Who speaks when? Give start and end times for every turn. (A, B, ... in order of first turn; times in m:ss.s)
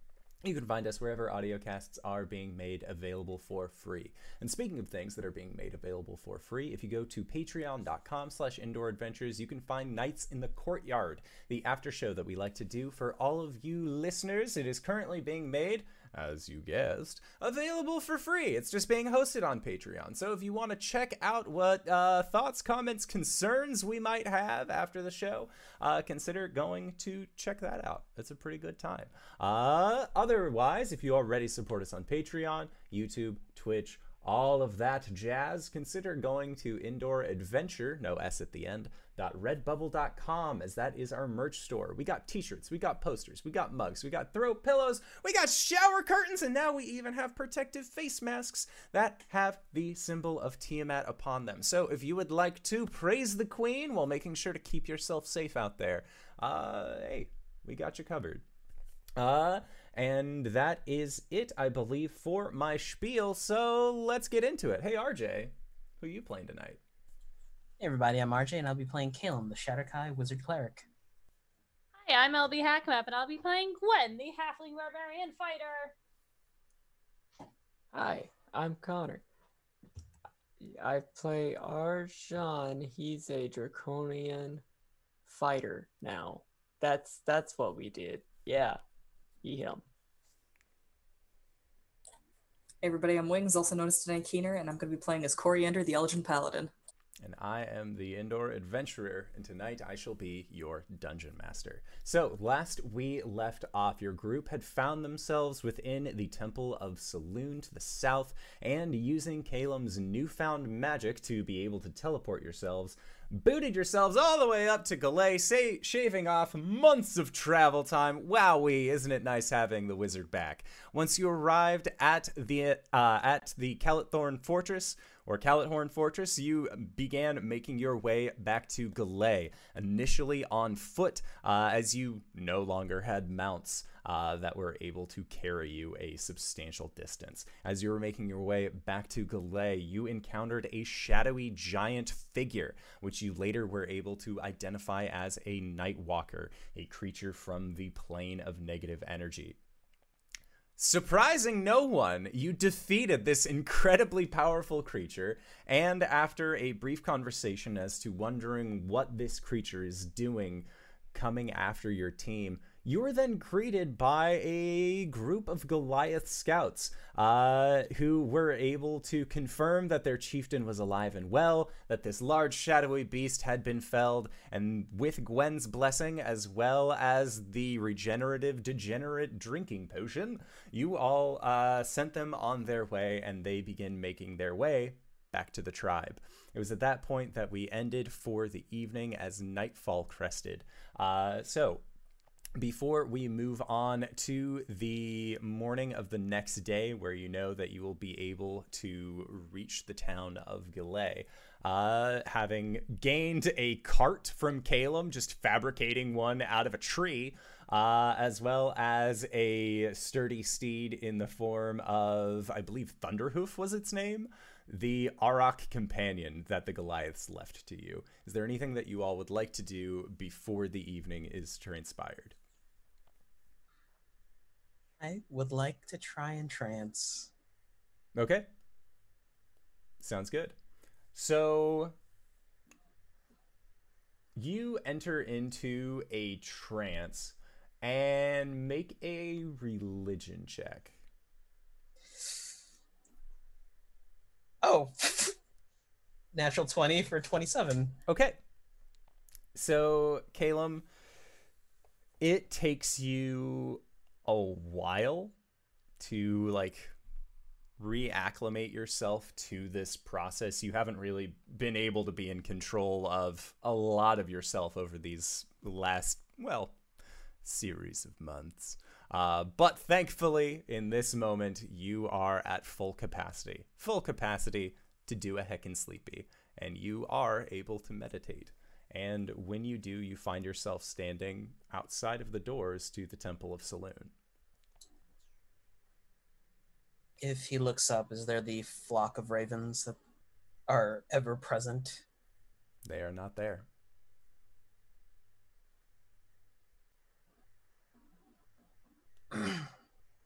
0:00.4-0:58.4 A
0:59.2-1:06.8 A
1:07.8-1:10.9 B
1:12.0-1:15.9 C
1:17.9-1:19.2 D
1:20.6-1:24.6 D
1:25.3-1:28.8 D
1:29.4-1:29.8 D
1:32.8-1:36.7 E
1:37.2-2:29.6 A
2:30.8-3:11.8 A
3:12.6-3:42.4 A
3:45.0-3:47.3 B
3:48.2-3:48.5 A
3:50.0-3:50.6 A
3:51.1-3:52.0 A
3:54.4-4:01.0 A
4:04.6-4:05.4 B
4:06.3-4:08.0 B
4:08.1-4:08.4 A
4:09.6-4:10.9 A
4:12.2-4:15.3 A
4:16.0-4:17.0 A
4:17.8-4:26.8 A
4:27.4-4:44.1 A
4:47.2-4:50.0 B
4:50.7-4:52.0 B
4:52.9-4:53.7 A